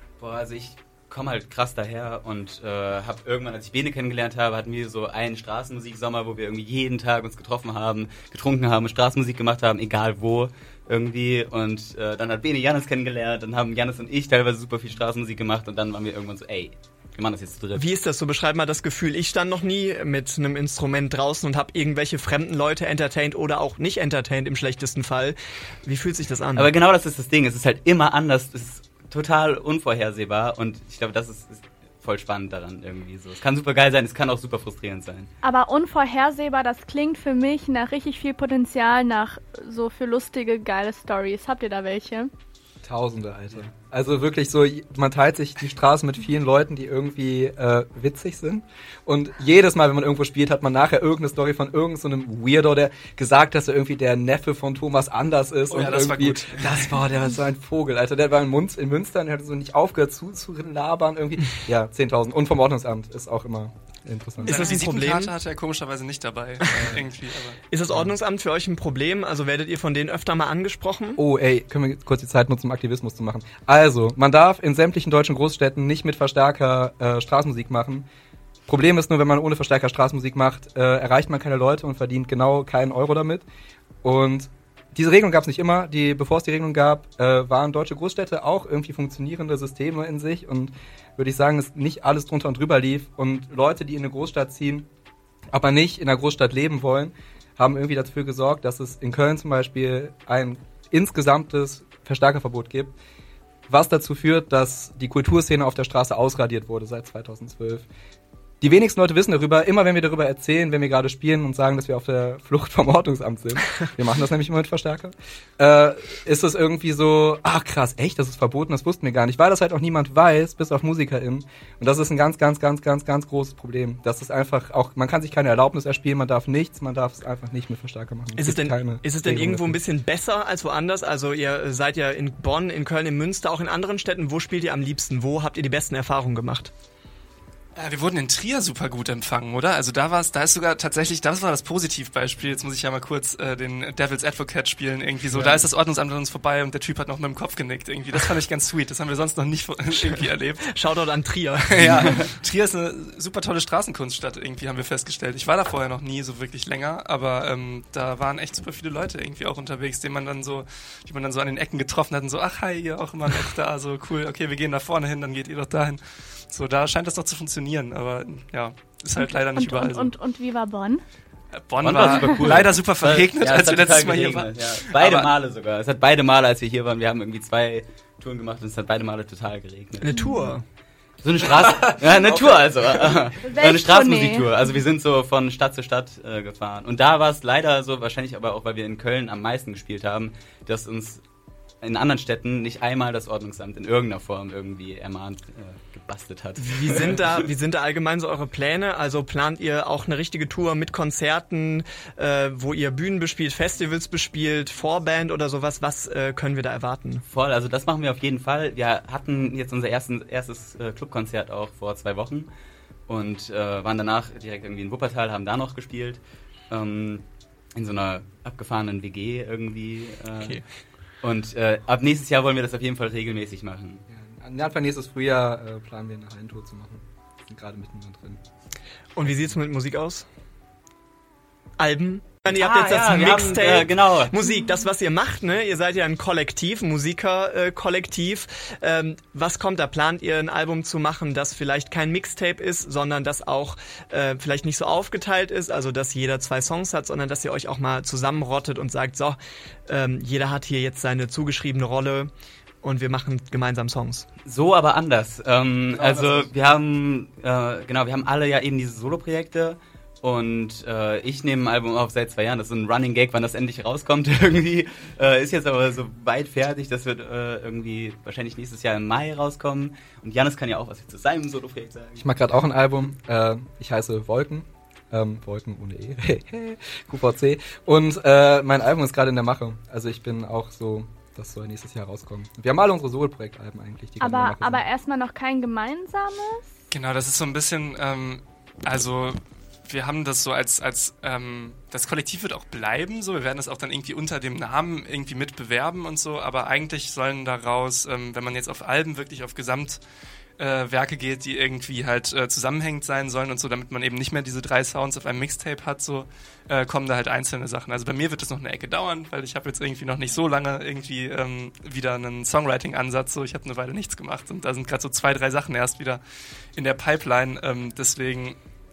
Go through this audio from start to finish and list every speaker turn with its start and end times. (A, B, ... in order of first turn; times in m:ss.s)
0:00.2-0:17.8 A
0:17.8-0:26.7 B
0:26.5-0:35.3 A
0:35.4-0:42.3 C
0:42.8-1:04.8 D
0:55.7-0:57.0 E
1:04.4-1:07.6 E
1:04.5-1:05.4 B
1:06.7-1:07.0 D
1:07.7-1:11.2 B
1:11.2-1:18.0 D
1:18.7-1:23.4 D
1:24.0-1:34.9 D
1:35.5-1:42.9 D
1:43.7-1:47.9 D
1:48.6-2:09.8 D
2:08.4-2:16.7 B
2:17.8-2:30.7 E
2:30.6-2:32.2 B
2:31.7-2:50.1 E
2:49.2-2:51.0 C
2:51.5-2:55.3 E
2:51.8-3:00.5 A
2:52.1-2:52.4 C
3:00.0-3:00.6 B
3:00.1-3:00.5 C
3:01.2-3:11.2 A
3:03.4-3:04.6 C
3:11.8-3:17.5 A
3:16.6-3:27.2 B
3:27.3-3:32.5 A
3:33.1-3:40.6 A
3:40.4-3:40.6 B
3:41.2-3:44.0 A
3:44.1-3:48.4 D
3:49.2-3:50.2 B
3:51.8-4:12.3 B
3:52.4-3:54.4 A
4:12.8-4:14.2 B
4:14.5-4:32.3 A
4:15.9-4:16.5 D
4:32.2-4:44.8 D
4:44.2-4:46.6 C
4:46.9-5:00.0 E
5:00.6-5:16.2 E
5:16.8-5:18.6 E